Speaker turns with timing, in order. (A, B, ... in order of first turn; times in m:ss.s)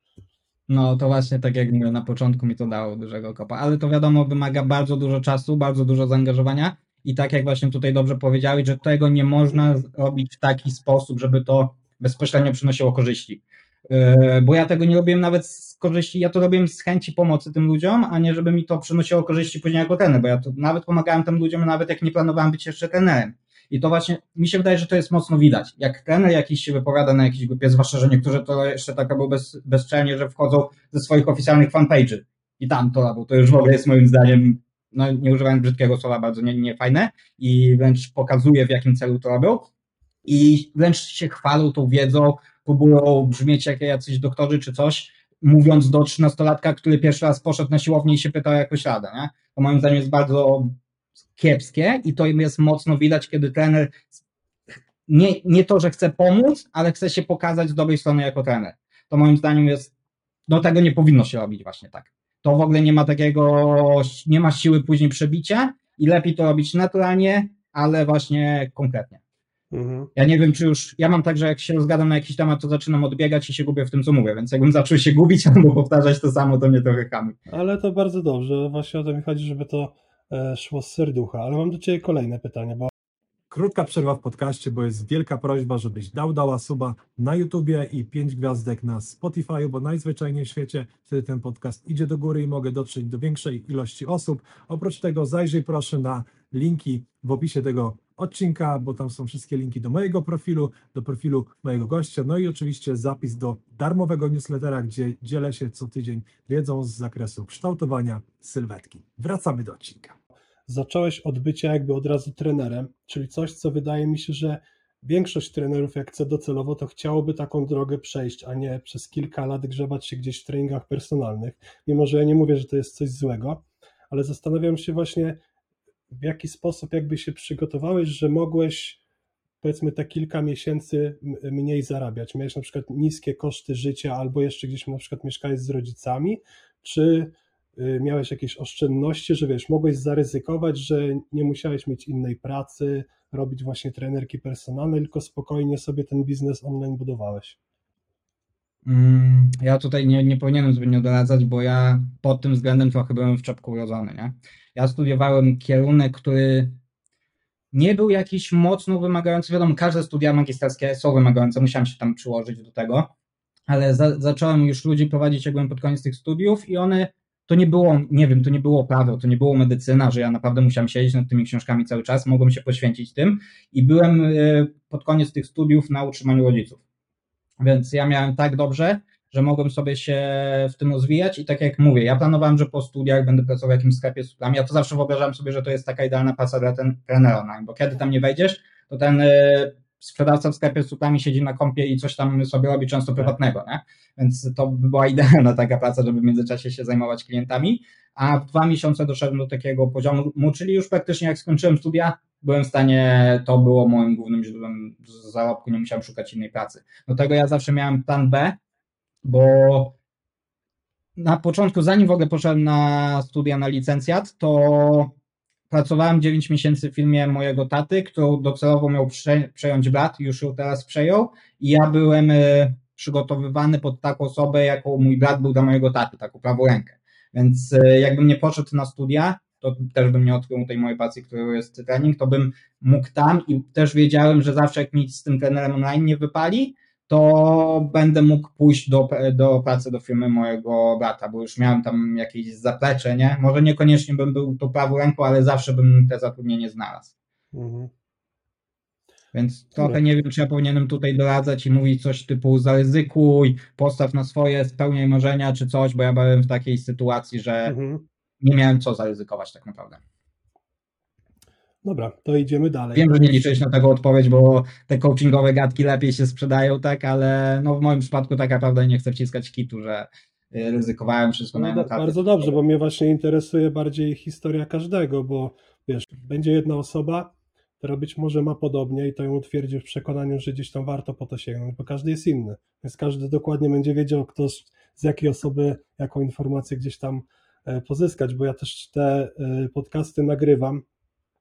0:00.7-0:39.7 A
0:40.2-0:50.8 A
0:51.4-0:54.1 A
0:55.1-0:59.9 A
1:00.5-1:09.2 A
1:09.7-1:10.1 B
1:10.2-1:17.4 A
1:17.5-1:22.9 B
1:23.5-1:50.2 C
1:50.7-2:05.4 B
2:06.1-2:09.0 B
2:09.6-2:27.6 B
2:28.9-2:36.8 A
2:37.7-2:43.1 A
2:43.7-2:56.8 A
2:57.6-3:28.6 A
3:29.2-3:30.0 A
3:31.2-3:35.2 A
3:35.7-4:07.1 A
4:07.5-4:07.9 B
4:09.3-4:17.8 A
4:17.7-4:18.0 B
4:18.4-4:20.0 A
4:21.8-4:23.5 B
4:23.0-4:32.5 A
4:31.5-4:50.8 B